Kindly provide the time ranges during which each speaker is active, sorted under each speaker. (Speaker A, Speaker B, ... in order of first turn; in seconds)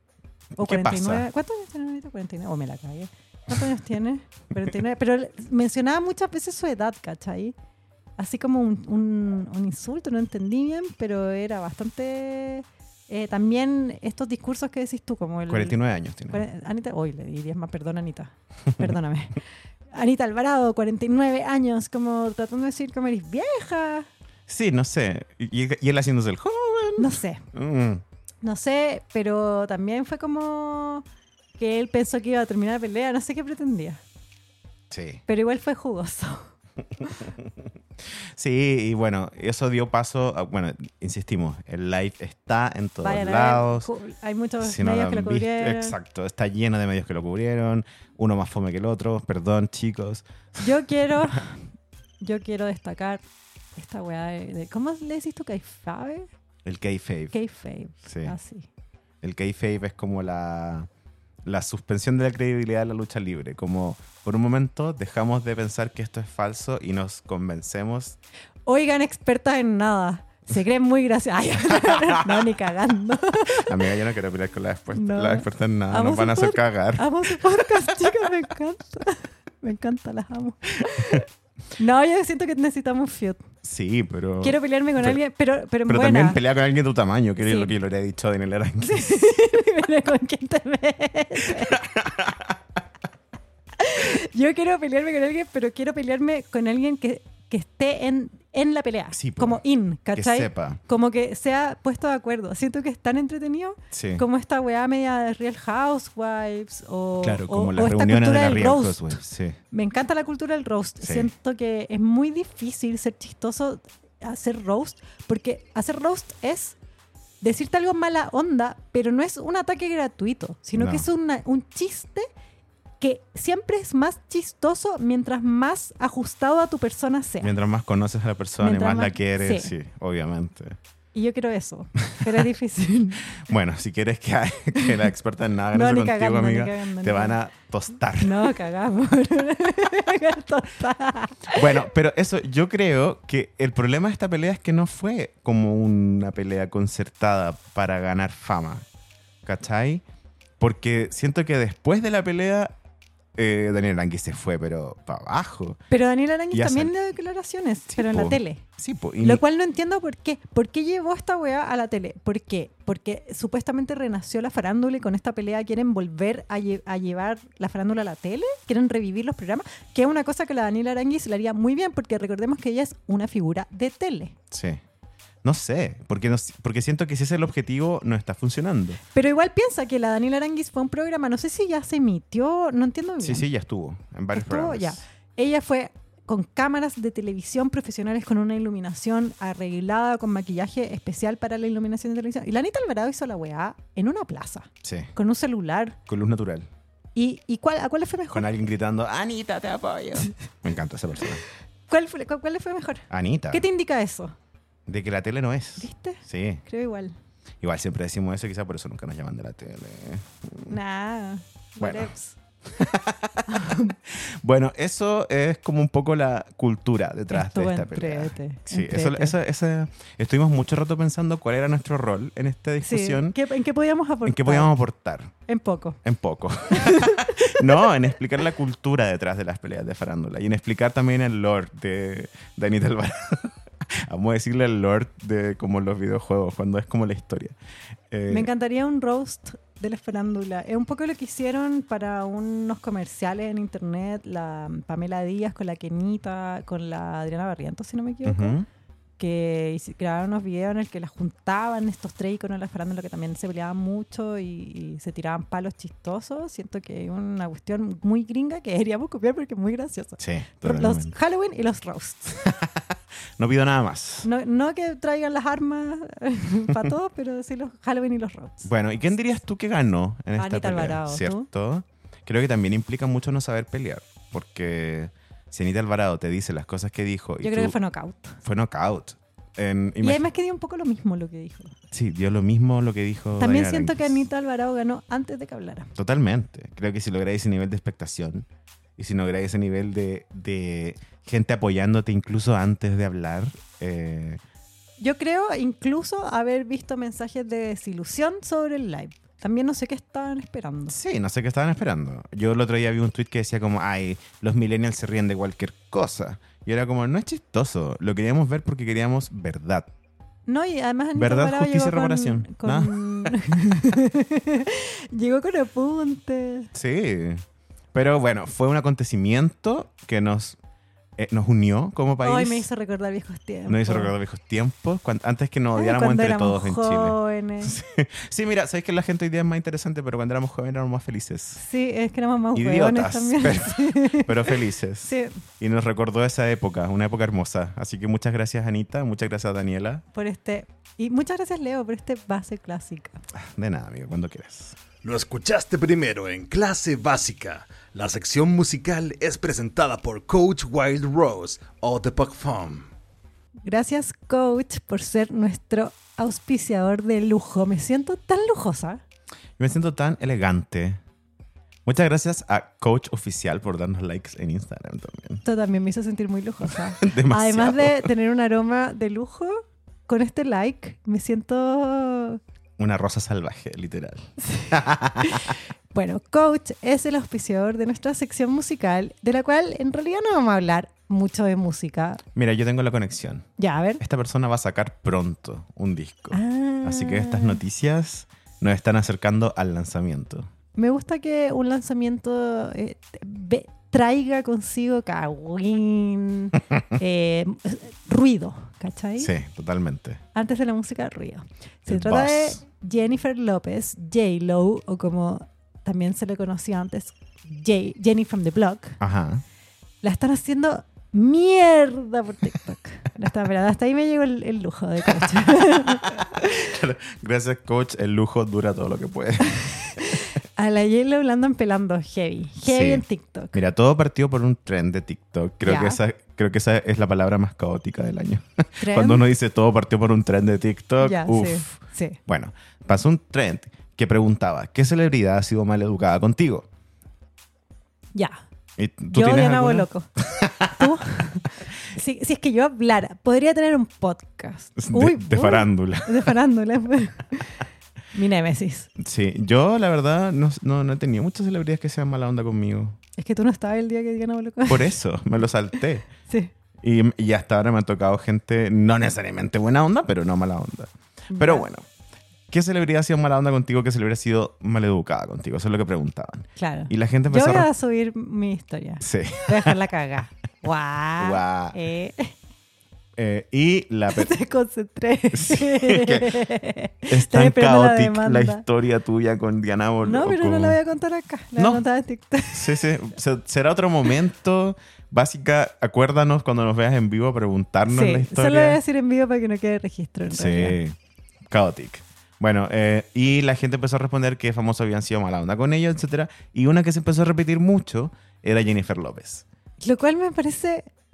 Speaker A: 0.6-1.3, 15.5-16.5, 24.5-28.0, 34.9-35.2, 37.2-37.5, 38.4-43.9, 44.6-50.7, 56.6-57.4, 58.1-58.4, 59.2-60.9, 61.5-68.2, 71.7-72.5, 73.5-78.3, 83.6-85.2, 85.9-89.1, 91.5-92.6, 99.1-99.6, 100.1-100.8, 103.9-104.2, 107.2-109.6, 111.0-111.3, 120.8-121.1, 127.4-130.8, 133.4-138.6, 141.5-148.8, 149.4-150.0, 150.6-152.7, 153.4-155.8, 156.5-156.9, 157.9-159.4, 174.5-174.8, 175.4-179.0, 183.2-185.0, 194.8-195.1, 196.1-196.7, 198.3-201.4, 203.1-203.7, 204.9-206.6, 207.6-210.8, 211.8-212.1, 212.7-223.4, 224.2-225.3, 226.0-237.6, 238.1-238.5, 248.2-248.7, 260.2-261.1, 262.4-262.8, 263.4-264.3, 268.6-277.8, 278.4-280.3, 281.9-284.3, 285.9-294.4, 300.9-309.9, 311.1-313.4, 316.7-320.6, 321.2-322.7, 323.7-331.6, 332.6-340.0, 343.4-344.8, 359.6-361.0, 361.9-365.4, 366.7-368.1, 372.8-375.6, 382.4-383.5, 384.0-390.5, 399.2-400.2, 401.9-402.6, 409.0-409.4, 415.1-420.0, 422.6-436.7, 438.8-440.9, 444.8-446.4, 449.0-453.0, 454.7-456.1, 456.8-461.9, 462.5-467.7, 469.0-469.8, 471.2-471.8, 473.2-474.3, 475.3-476.4, 477.1-480.8, 481.6-481.8, 482.5-488.8, 490.3-491.0, 491.5-499.4
Speaker B: 0.6-7.5, 8.2-15.8, 16.3-19.4, 19.9-24.1, 27.0-27.4, 28.4-31.1, 31.6-34.0, 35.3-36.5, 43.0-46.0, 50.6-51.6, 52.2-53.2, 53.8-56.3, 57.3-58.7, 68.7-73.8, 74.9-81.3, 81.8-83.4, 84.4-86.4, 87.4-87.8, 88.8-91.9, 93.8-109.2, 109.7-116.8, 117.4-122.3, 123.0-127.5, 128.6-129.7, 131.1-133.3, 135.7-137.4, 138.2-141.8, 155.9-158.6, 159.2-174.3, 179.1-183.5, 184.3-196.0, 197.2-198.5, 201.9-204.3, 205.8-207.1, 210.7-212.4, 213.5-214.0, 217.3-219.3, 222.8-224.7, 225.5-226.0, 226.7-227.8, 238.3-248.6, 249.2-262.5, 264.2-268.7, 270.4-271.5, 277.4-278.4, 280.0-281.8, 283.4-285.9, 295.0-301.0, 310.5-316.7, 322.2-324.1, 325.8-327.8, 331.6-335.4, 340.1-343.2, 353.6-359.0, 365.4-372.4, 374.4-382.2, 383.6-384.0, 386.3-387.6, 390.8-399.3, 400.3-409.0, 410.0-416.7, 419.6-423.6, 425.6-426.0, 428.8-429.2, 431.0-432.2, 439.1-440.1, 440.7-448.9, 453.2-454.9, 456.1-456.5, 461.3-461.7, 466.6-472.3, 474.1-478.6, 480.0-482.8, 487.9-490.8, 499.8-500.9
Speaker C: 345.0-352.9